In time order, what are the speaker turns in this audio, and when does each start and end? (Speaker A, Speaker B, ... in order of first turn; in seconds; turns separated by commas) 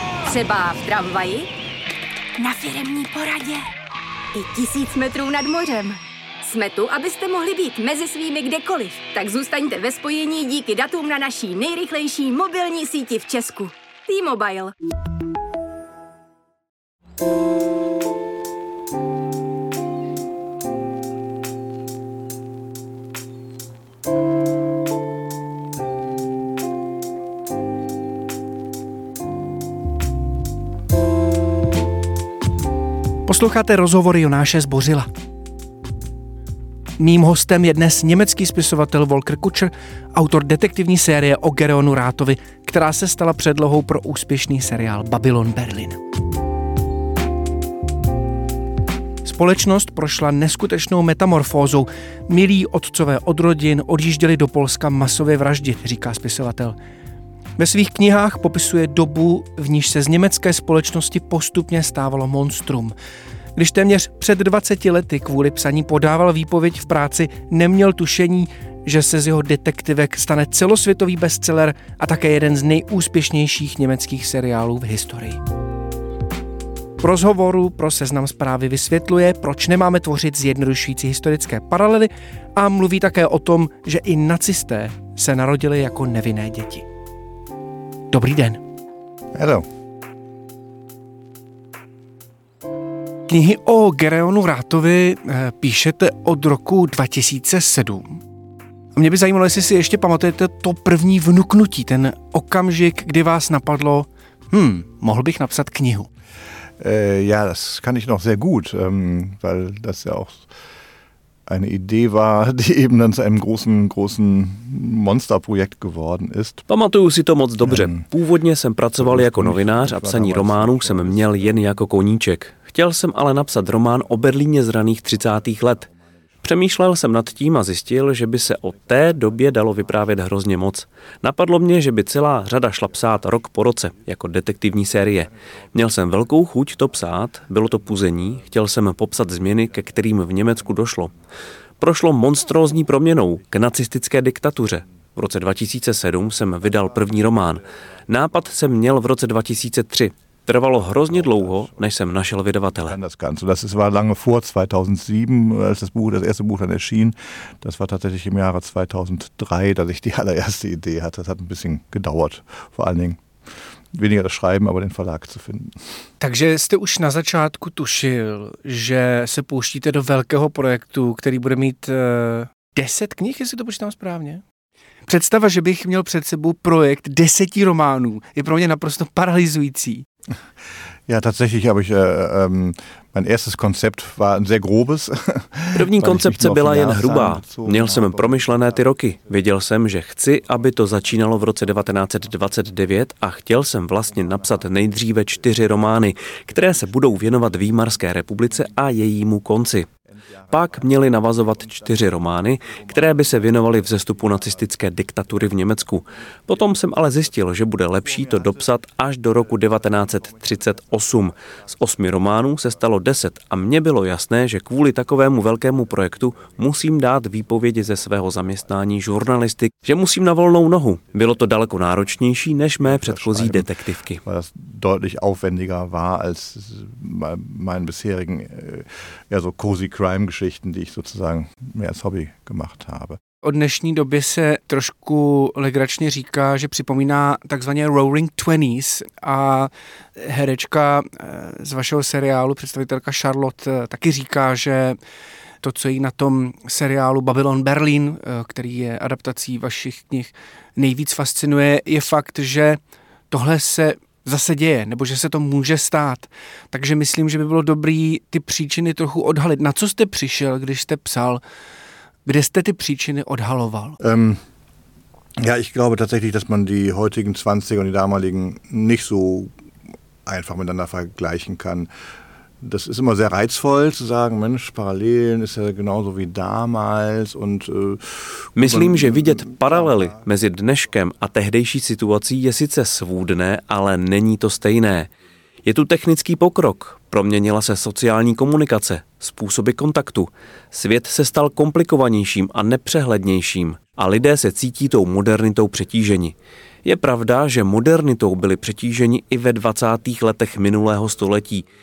Speaker A: 0.2-1.5, Speaker A: 2.4-3.7, Speaker A: 4.3-14.8, Speaker B: 33.3-35.1, Speaker B: 37.0-46.0, Speaker B: 49.2-56.8, Speaker B: 57.6-63.0, Speaker B: 63.5-75.4, Speaker B: 77.0-86.9, Speaker B: 88.1-88.6, Speaker C: 89.3-89.7, Speaker B: 93.3-98.2, Speaker B: 98.9-106.1, Speaker C: 106.8-110.5, Speaker C: 111.5-116.7, Speaker D: 116.7-125.9, Speaker C: 117.6-118.1, Speaker C: 119.0-121.6, Speaker D: 126.4-141.1, Speaker D: 141.8-153.0, Speaker C: 150.9-151.8, Speaker C: 152.8-163.2, Speaker C: 163.9-165.8, Speaker B: 166.2-174.4, Speaker B: 175.1-180.1, Speaker C: 181.1-188.8, Speaker D: 185.7-199.9, Speaker D: 200.5-224.2, Speaker C: 201.0-201.5, Speaker C: 222.8-223.7, Speaker C: 224.2-233.2, Speaker B: 233.4-245.0, Speaker B: 245.6-261.4, Speaker B: 262.2-264.0, Speaker C: 264.0-264.4, Speaker C: 265.4-269.5, Speaker C: 270.2-271.9, Speaker C: 272.6-280.2, Speaker D: 278.6-285.1, Speaker D: 285.7-301.7